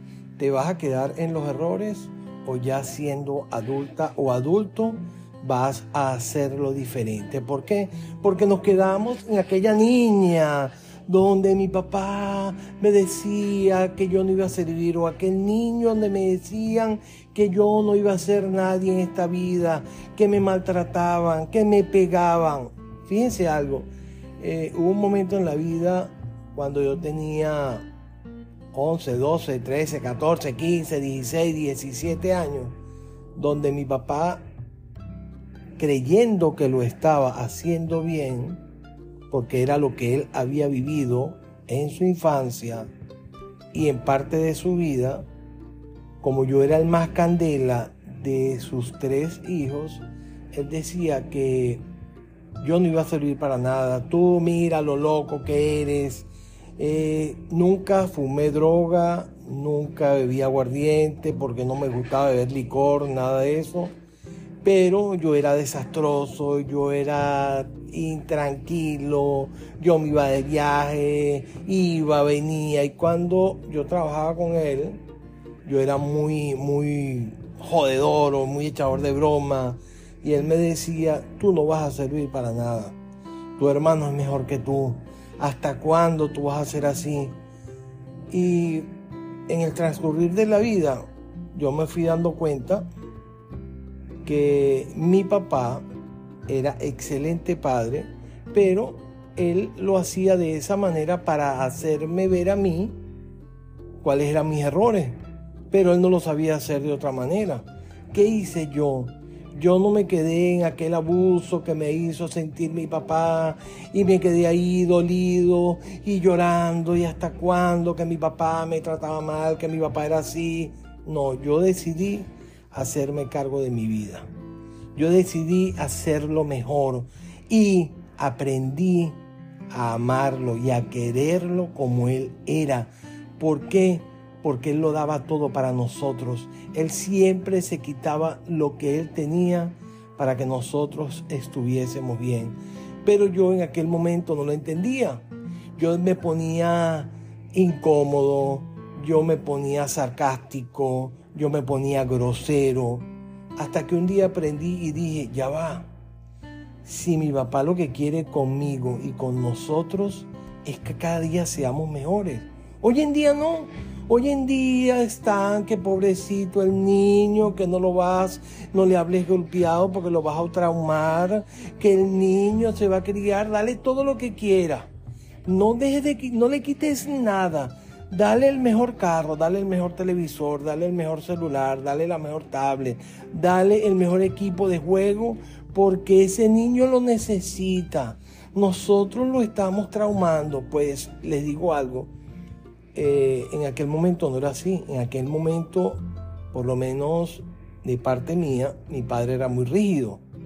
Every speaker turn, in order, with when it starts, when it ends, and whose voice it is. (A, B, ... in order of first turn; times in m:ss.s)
0:00.4-0:27.8 A
0:28.7-0:32.8 A
0:33.4-0:34.4 A
0:35.8-0:38.6 A
0:39.3-0:42.9 A
0:43.7-0:45.2 A
0:46.2-0:50.0 A
0:50.5-0:51.8 A
0:52.6-1:03.9 A
1:04.6-1:15.0 A
1:15.6-1:23.0 A
1:23.6-1:27.4 A
1:28.3-1:28.9 A
1:29.5-1:32.9 A
1:34.2-1:35.8 A
1:36.5-1:43.0 A
1:44.0-1:45.2 A
1:45.7-2:04.3 A
2:04.9-2:09.2 A
2:09.7-2:25.2 A
2:25.8-2:35.9 A
2:36.8-2:54.9 A
2:55.4-3:12.1 A
3:12.9-3:20.2 A